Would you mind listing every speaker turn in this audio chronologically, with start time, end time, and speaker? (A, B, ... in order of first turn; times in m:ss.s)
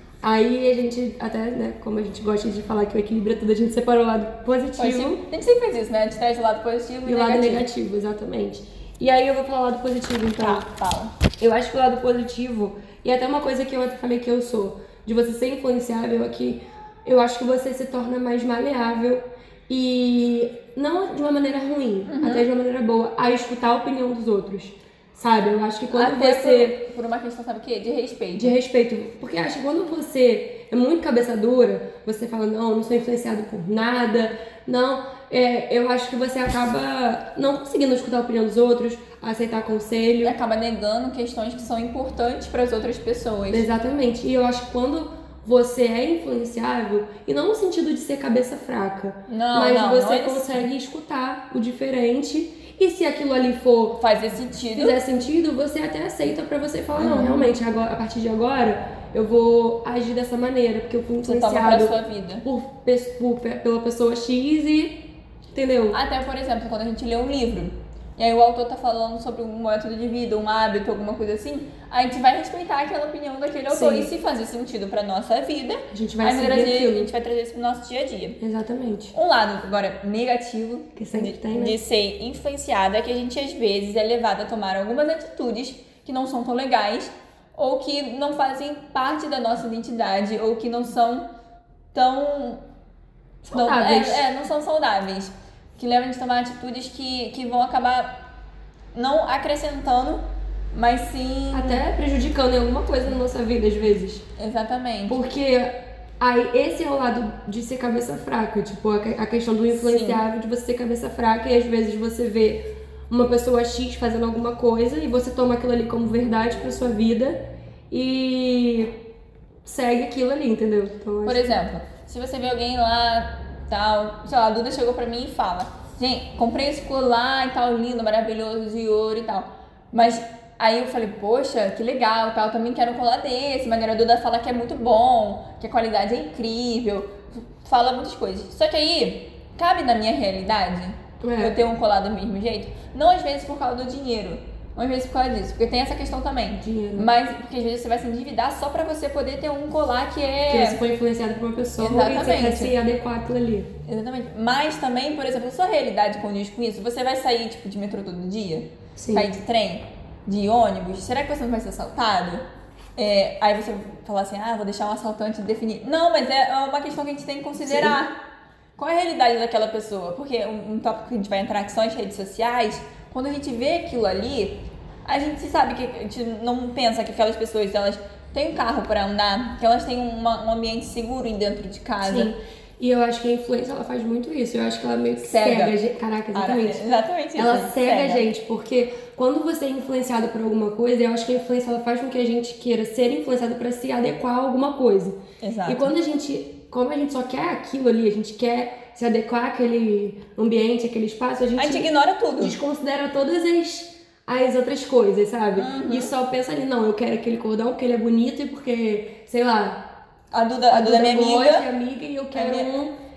0:00.2-0:05.2 A
0:04.8-0:07.7 B
0:07.0-0:10.7 A
0:10.4-0:11.1 B
0:11.4-0:26.8 A
0:22.1-0:22.4 B
0:25.9-0:28.5 B
0:28.4-0:40.4 A
0:40.2-0:43.7 B
0:43.5-0:54.0 A
0:49.3-0:50.6 B
0:53.9-0:55.0 B
0:54.7-1:06.0 A
0:57.0-0:57.5 B
1:01.2-1:02.4 B
1:05.9-1:18.4 B
1:13.7-1:14.1 A
1:15.9-1:17.1 A
1:18.4-1:19.1 A
1:19.1-1:31.3 B
1:21.0-1:21.8 A
1:31.9-1:32.6 B
1:33.4-1:34.2 A
1:33.5-1:38.1 B
1:38.9-1:41.8 B
1:41.5-1:44.2 A
1:44.4-1:45.2 B
1:45.1-1:58.9 A
1:49.8-1:50.2 B
1:59.6-2:01.6 A
2:01.2-2:30.8 B
2:21.2-2:21.6 A
2:26.5-2:27.1 A
2:30.5-2:33.7 A
2:31.8-2:32.7 B
2:33.8-2:42.4 B
2:39.0-2:39.3 A
2:43.0-2:48.2 B
2:47.6-2:48.0 A
2:48.8-3:02.3 B
3:02.0-3:06.8 A
3:05.2-3:05.8 B
3:06.3-3:08.3 B
3:07.4-3:29.9 A
3:15.4-3:15.9 B
3:21.6-3:22.6 B
3:25.5-3:26.1 B
3:30.3-3:31.7 B
3:30.7-3:32.9 A
3:32.3-3:32.7 B